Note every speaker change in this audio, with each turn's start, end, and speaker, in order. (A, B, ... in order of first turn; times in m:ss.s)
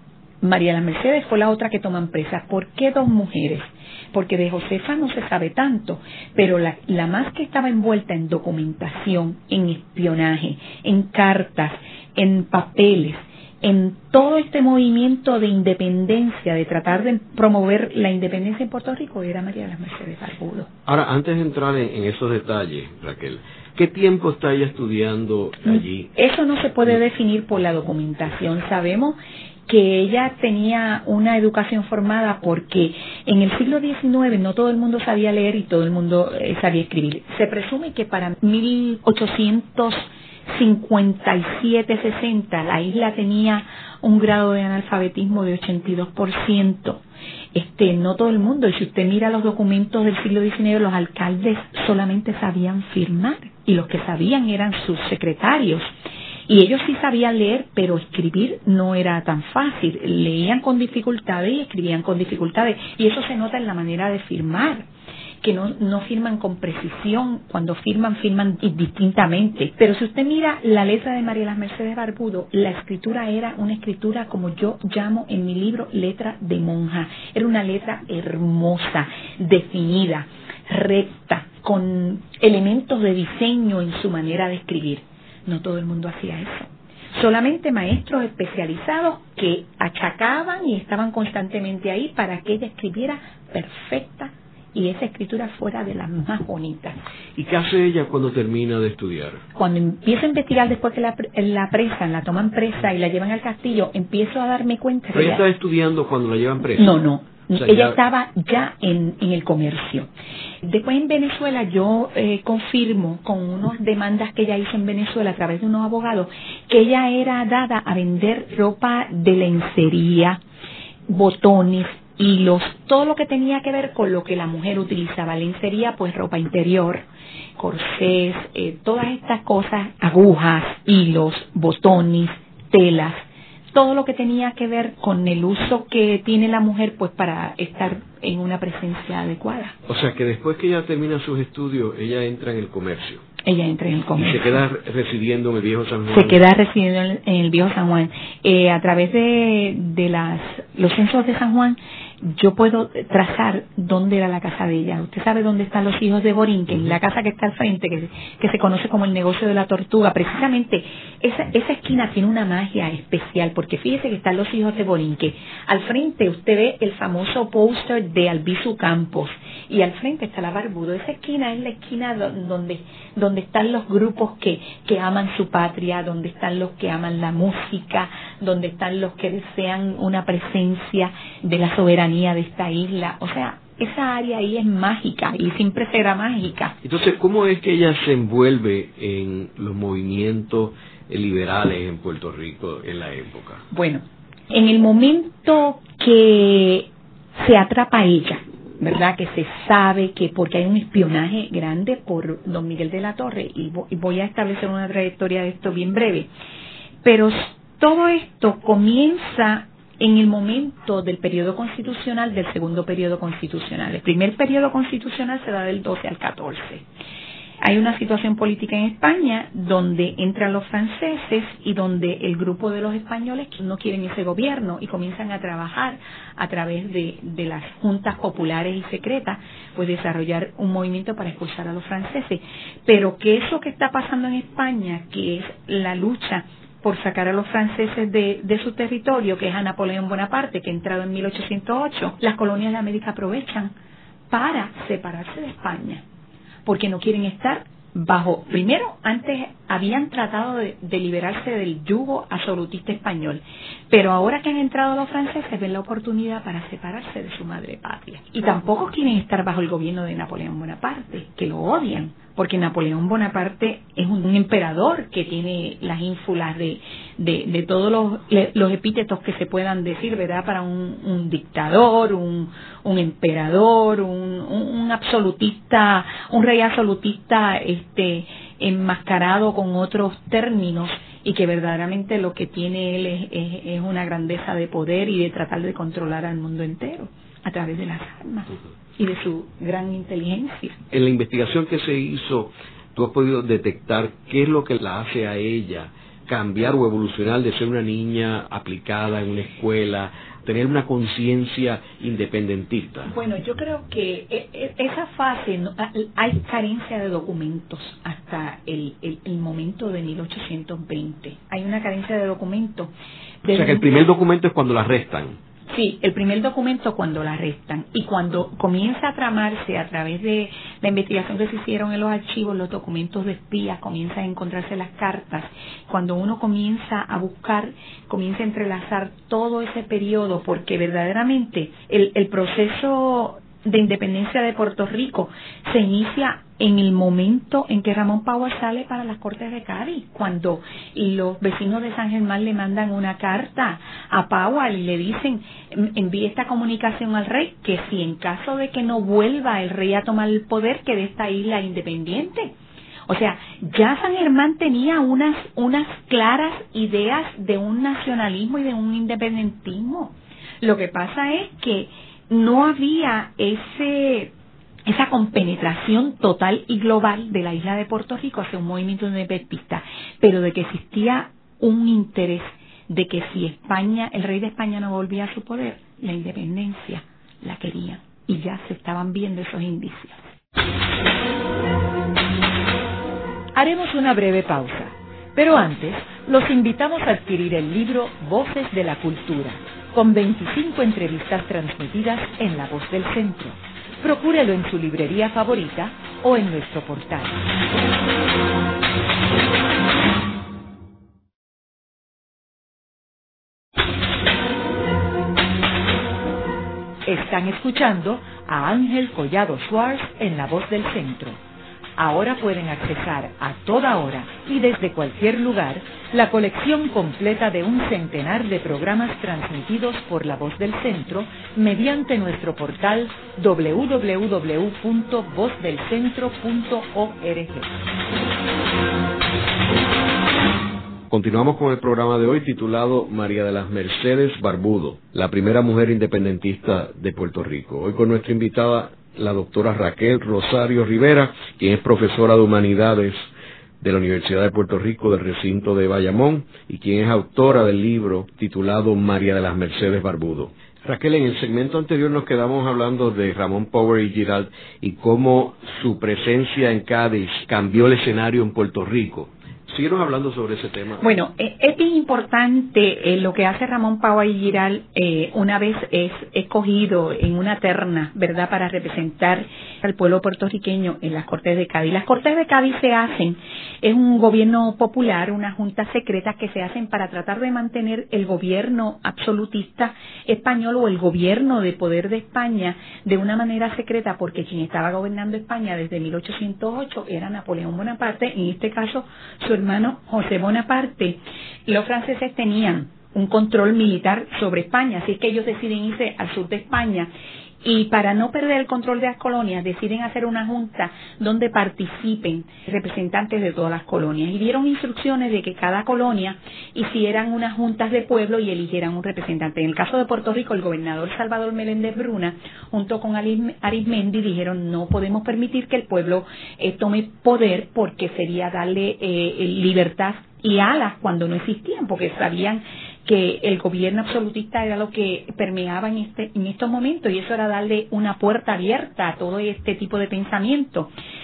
0:00.4-0:20.7 A
0:20.9-0:26.1 B
0:25.7-0:29.2 A
0:29.7-0:47.0 A
0:47.5-0:55.9 A
0:56.5-1:04.8 A
1:05.4-1:37.0 A
1:37.4-1:39.4 B
1:39.6-1:45.4 A
1:45.1-1:46.9 B
1:46.8-1:50.1 A
1:47.6-1:48.0 B
1:50.6-2:00.4 A
2:01.1-2:07.0 A
2:07.6-2:13.2 A
2:13.7-2:19.8 A
2:19.9-2:23.2 B
2:23.4-2:24.6 A
2:24.2-2:26.4 B
2:26.1-3:06.8 A
3:06.8-3:13.6 B
3:13.7-3:26.3 A
3:27.0-3:36.8 A
3:37.6-4:03.7 A
4:04.3-4:06.0 A
4:06.6-4:50.8 A
4:50.9-5:03.1 B
5:03.1-5:12.9 A
5:13.4-5:14.0 A
5:13.5-5:15.4 B
5:15.7-5:52.5 A
5:53.1-6:04.3 A
6:04.9-6:20.2 A
6:23.5-6:37.5 C
6:47.0-6:51.4 C
6:52.0-7:07.8 C
7:11.1-7:23.3 B
7:23.8-7:41.1 B
7:41.0-8:17.1 A
8:17.6-8:50.9 A